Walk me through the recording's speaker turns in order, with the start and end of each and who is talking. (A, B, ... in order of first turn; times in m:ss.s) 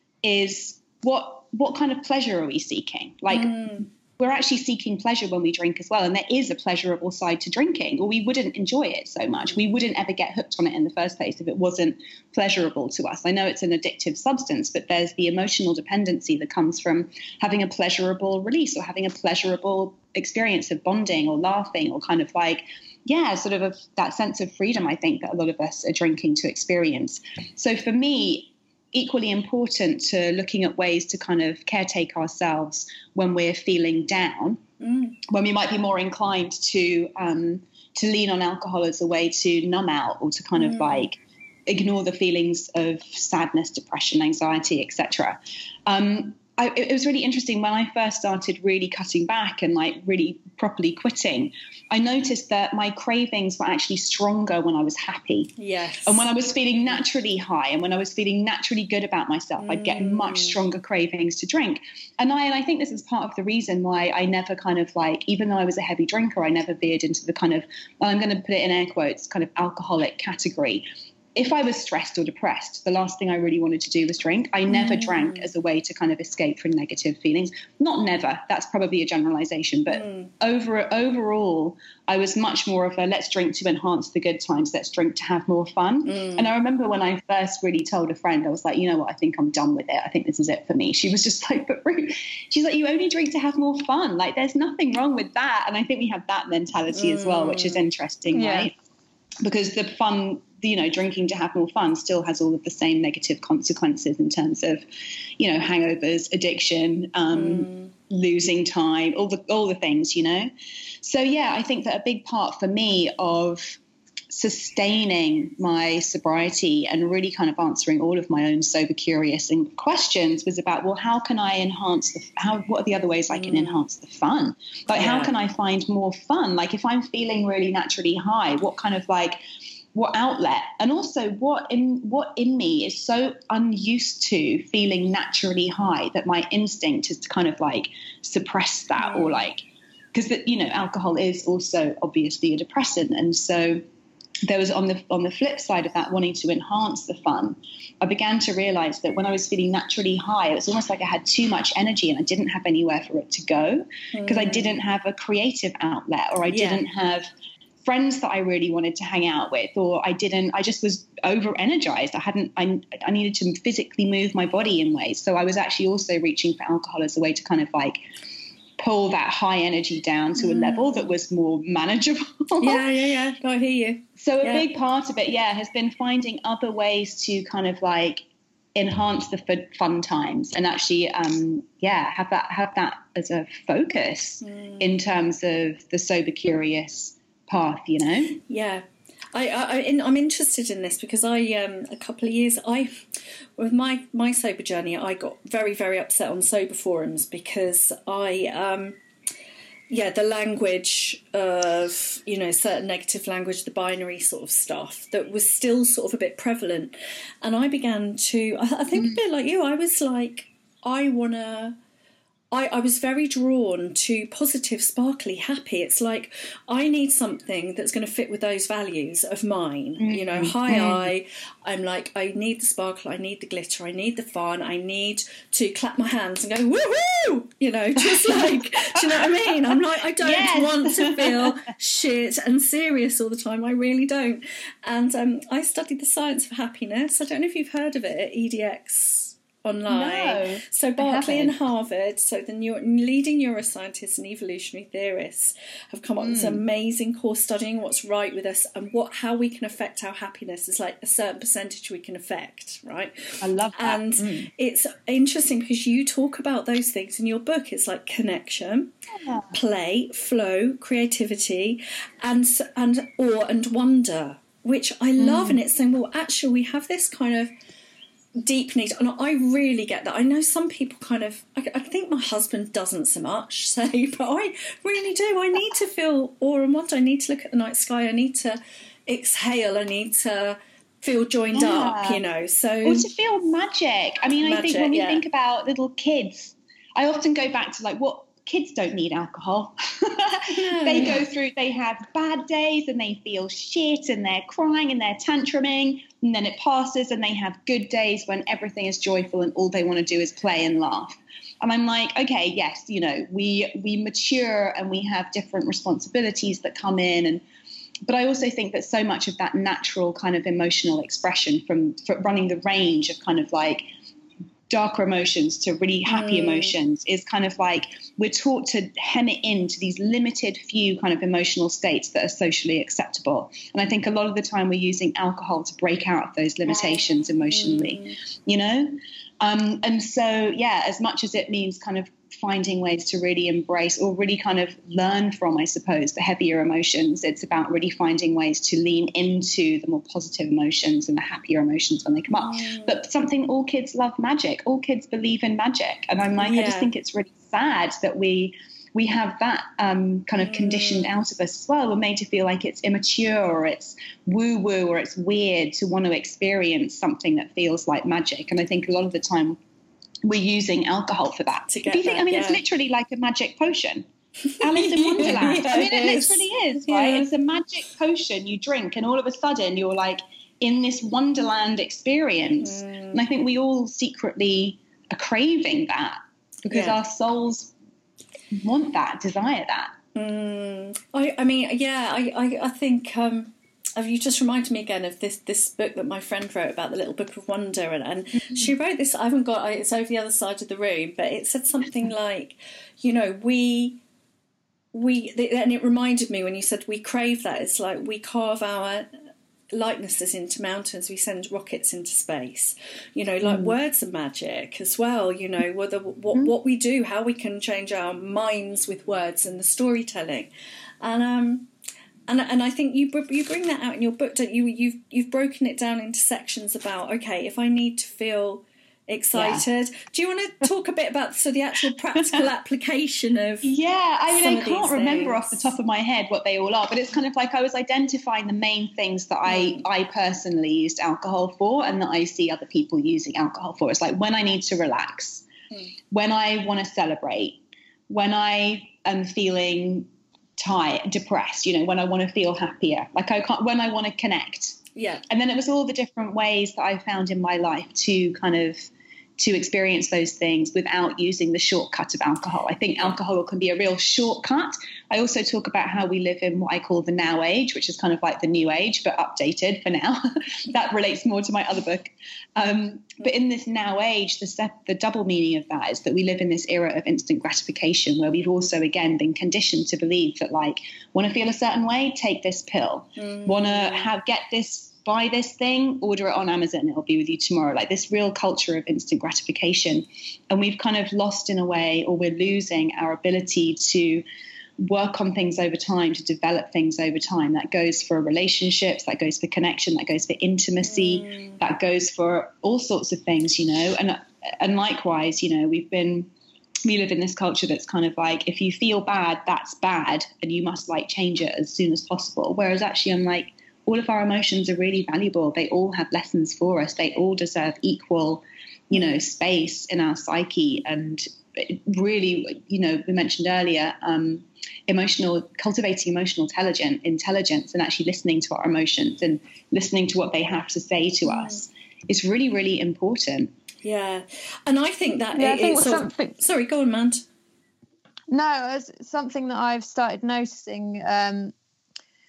0:00.2-0:34.6 A
0:03.3-0:03.9 B
0:34.8-0:35.2 B
0:35.3-0:55.5 A
0:40.6-0:41.1 B
0:55.6-0:56.3 B
0:56.1-1:38.7 A
0:59.6-1:00.6 B
1:14.7-1:15.5 B
1:19.9-1:20.3 B
1:26.0-1:26.5 B
1:36.9-1:37.8 B
1:38.3-1:38.7 C
1:39.4-1:44.8 A
1:45.4-1:50.5 A
1:47.3-1:47.9 B
1:51.0-1:53.8 A
1:54.3-2:09.4 A
2:03.3-2:03.8 B
2:04.9-2:05.3 B
2:10.0-2:19.6 A
2:19.0-2:19.4 B
2:20.1-2:23.8 A
2:24.5-2:37.3 A
2:34.1-2:34.8 B
2:36.5-2:36.8 B
2:37.8-2:48.0 A
2:48.8-2:52.8 A
2:50.4-2:51.1 B
2:52.6-2:54.7 B
2:54.2-3:08.4 A
3:04.4-3:04.9 B
3:08.4-3:13.0 B
3:13.6-3:19.0 B
3:19.9-3:31.8 B
3:32.5-4:18.9 B
3:40.0-3:41.1 A
3:48.2-3:49.1 A
3:50.2-3:51.5 A
3:59.9-4:01.6 A
4:06.2-4:06.6 A
4:13.4-4:14.5 A
4:19.2-4:19.5 A
4:19.5-4:27.5 B
4:25.2-4:25.6 A
4:28.4-4:43.1 B
4:41.5-4:42.2 A
4:42.8-5:07.4 A
4:44.4-4:45.2 B
4:50.5-4:51.2 B
5:08.1-5:13.8 A
5:14.7-5:59.6 A
5:16.1-5:16.7 B
5:27.5-5:28.1 B
5:42.3-5:43.0 B
5:46.4-5:46.9 B
5:50.4-5:51.1 B
6:00.2-6:04.0 A
6:01.7-6:02.6 B
6:04.6-6:17.7 A
6:04.7-6:07.3 B
6:12.6-6:13.2 B
6:16.7-6:17.0 B
6:18.5-6:20.0 A
6:20.2-6:34.0 B
6:34.9-6:39.1 B
6:39.7-6:51.7 B
6:43.4-6:43.8 A
6:52.3-7:03.7 B
6:59.4-6:59.6 A
7:03.6-7:15.5 A
7:04.3-7:05.7 B
7:09.5-7:09.8 B
7:16.1-8:04.2 A
7:25.0-7:25.2 B
7:53.2-7:54.1 B
8:04.8-8:16.3 A
8:10.8-8:11.6 B
8:16.8-8:43.5 A
8:41.3-8:41.6 B
8:43.8-8:47.2 B
8:45.4-8:46.4 C
8:48.3-8:51.5 C